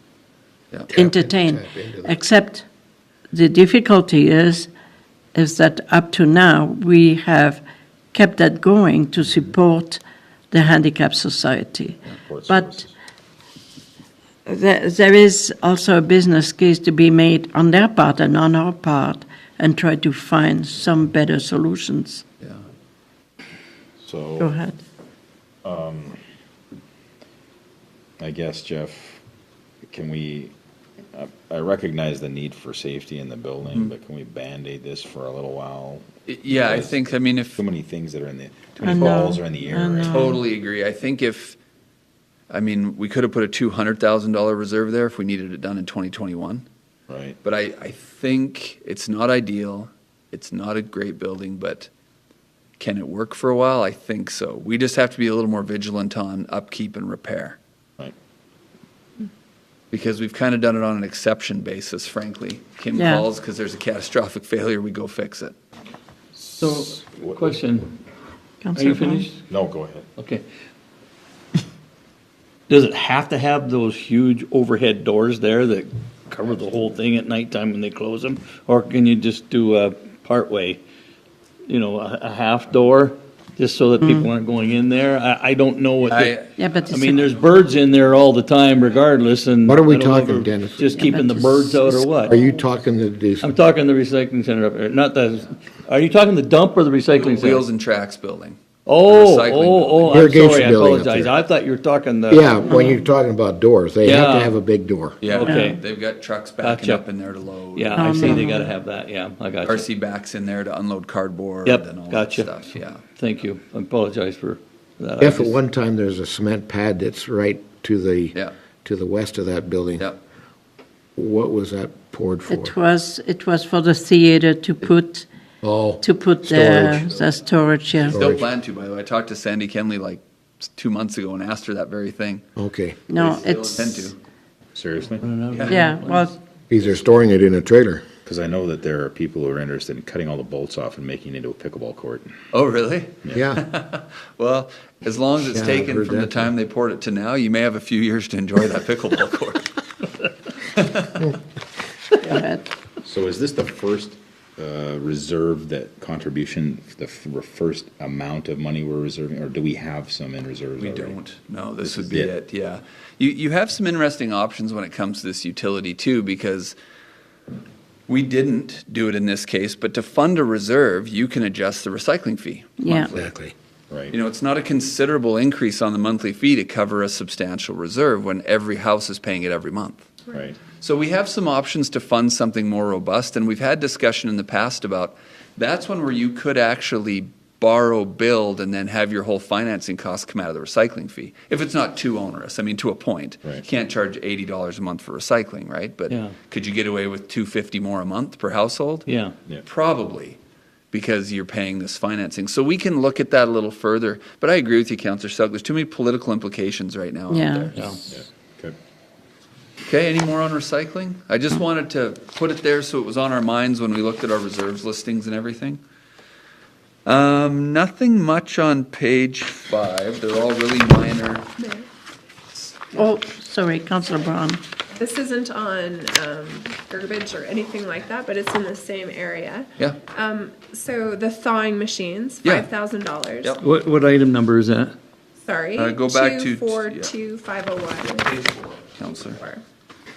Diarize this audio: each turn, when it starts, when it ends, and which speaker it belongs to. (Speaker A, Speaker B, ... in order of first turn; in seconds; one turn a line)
Speaker A: 0.9-2.2
Speaker B: 0.9-2.6
Speaker B: 3.3-4.7
Speaker B: 5.3-12.8
Speaker C: 12.1-12.9
Speaker B: 14.4-22.2
Speaker C: 24.0-24.5
Speaker B: 24.4-24.8
Speaker C: 25.6-26.2
Speaker C: 28.2-29.2
Speaker C: 29.9-30.5
Speaker C: 31.1-37.0
Speaker D: 36.2-37.6
Speaker C: 37.5-40.3
Speaker B: 38.8-40.4
Speaker D: 40.1-41.6
Speaker D: 42.5-46.6
Speaker C: 47.1-47.4
Speaker D: 47.4-51.9
Speaker D: 52.8-57.6
Speaker D: 59.9-65.5
Speaker B: 62.9-63.2
Speaker C: 66.3-67.6
Speaker E: 66.6-67.9
Speaker B: 68.6-69.3
Speaker E: 68.7-69.4
Speaker C: 69.5-70.0
Speaker E: 70.2-70.4
Speaker E: 72.7-80.8
Speaker E: 81.7-92.4
Speaker B: 84.0-84.3
Speaker D: 86.1-86.5
Speaker B: 86.6-87.3
Speaker A: 89.7-90.9
Speaker B: 91.0-92.0
Speaker A: 92.2-93.5
Speaker E: 93.4-97.6
Speaker D: 97.1-100.3
Speaker E: 98.8-102.8
Speaker A: 100.0-101.3
Speaker A: 102.3-105.2
Speaker B: 102.7-103.0
Speaker E: 104.0-104.5
Speaker D: 105.2-108.5
Speaker E: 105.3-105.8
Speaker B: 105.4-105.8
Speaker E: 106.6-107.0
Speaker E: 107.7-109.8
Speaker B: 107.9-108.7
Speaker D: 109.6-113.0
Speaker E: 111.6-112.5
Speaker E: 113.2-115.6
Speaker A: 115.2-120.1
Speaker A: 121.2-122.7
Speaker B: 122.5-125.3
Speaker A: 125.6-127.1
Speaker B: 126.0-128.2
Speaker D: 126.9-127.2
Speaker A: 128.1-128.5
Speaker D: 128.1-132.4
Speaker A: 132.6-133.0
Speaker B: 133.1-134.1
Speaker D: 133.1-134.2
Speaker C: 134.7-135.3
Speaker E: 135.2-136.3
Speaker D: 135.5-135.8
Speaker B: 135.7-136.4
Speaker A: 136.7-138.1
Speaker C: 138.2-142.3
Speaker D: 142.5-149.7
Speaker A: 143.3-143.6
Speaker A: 145.4-146.4
Speaker D: 150.7-151.3
Speaker B: 152.2-152.7
Speaker C: 153.0-161.2
Speaker D: 160.8-166.8
Speaker C: 161.8-162.3
Speaker D: 168.1-173.3
Speaker B: 172.8-173.1
Speaker A: 173.1-173.5
Speaker C: 173.9-174.2
Speaker D: 174.1-180.2
Speaker C: 180.3-180.6
Speaker D: 180.7-199.1
Speaker E: 196.1-196.3
Speaker E: 199.1-199.3
Speaker D: 199.6-200.4
Speaker D: 200.9-207.9
Speaker B: 207.3-207.7
Speaker E: 207.7-208.0
Speaker C: 208.1-208.8
Speaker D: 209.8-215.8
Speaker D: 217.1-221.4
Speaker F: 221.6-221.8
Speaker B: 222.9-224.6
Speaker F: 224.9-233.5
Speaker D: 232.4-232.7
Speaker E: 233.6-234.9
Speaker F: 235.4-238.2
Speaker D: 235.7-237.1
Speaker D: 238.1-239.4
Speaker F: 239.2-239.6